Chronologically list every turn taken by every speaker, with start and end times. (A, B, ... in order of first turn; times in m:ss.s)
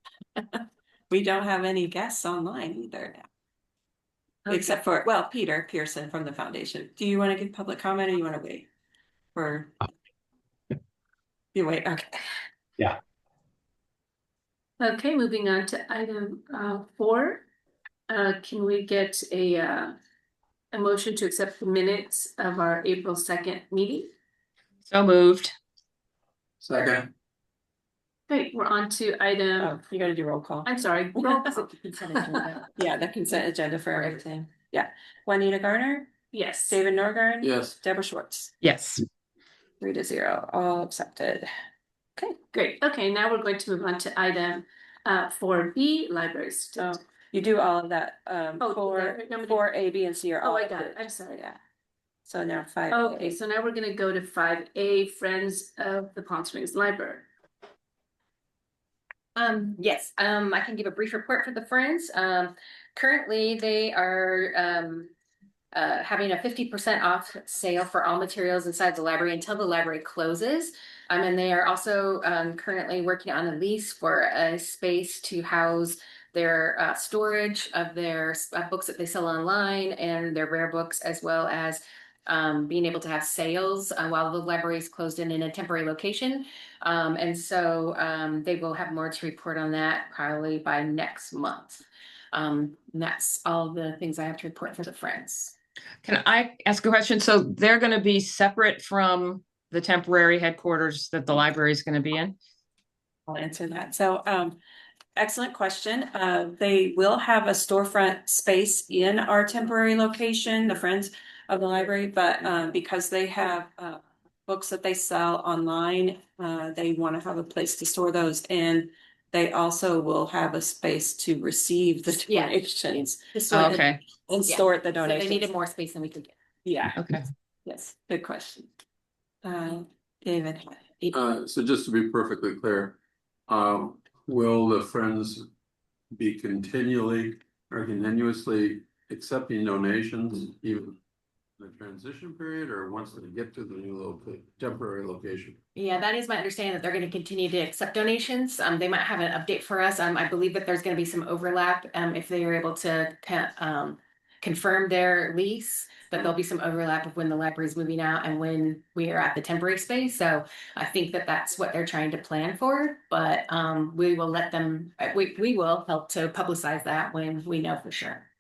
0:00.5-0:03.3 A
0:04.5-0:08.7 A
0:09.4-0:09.9 A
0:11.5-0:12.2 A
0:14.8-0:17.5 B
0:18.1-0:20.0 B
0:20.7-0:24.1 B
0:24.9-0:25.6 C
0:26.6-0:27.1 D
0:28.3-0:29.8 B
0:29.6-0:31.5 A
0:30.6-0:31.7 B
0:31.5-0:32.7 E
0:32.2-0:32.6 B
0:32.8-0:36.1 A
0:36.3-0:36.8 B
0:36.6-0:38.5 A
0:37.4-0:37.8 D
0:38.6-0:39.0 C
0:39.8-0:41.5 A
0:42.5-0:47.0 B
0:46.8-0:51.6 A
0:48.6-0:49.6 B
0:50.4-0:51.5 B
0:52.2-0:53.4 A
0:52.9-0:57.2 B
0:59.4-1:05.1 E
1:05.7-1:35.6 E
1:36.0-1:42.4 C
1:43.3-1:44.6 A
1:45.2-2:03.2 A
2:02.3-2:02.6 E
2:03.3-2:03.9 E
2:03.5-2:04.0 C
2:04.3-2:05.5 A
2:04.5-2:06.3 E
2:06.6-2:07.0 A
2:07.0-2:07.3 C
2:07.6-2:08.7 A
2:09.4-2:10.9 A
2:11.1-2:15.4 D
2:16.1-2:21.0 D
2:21.6-2:25.6 D
2:25.8-2:48.3 E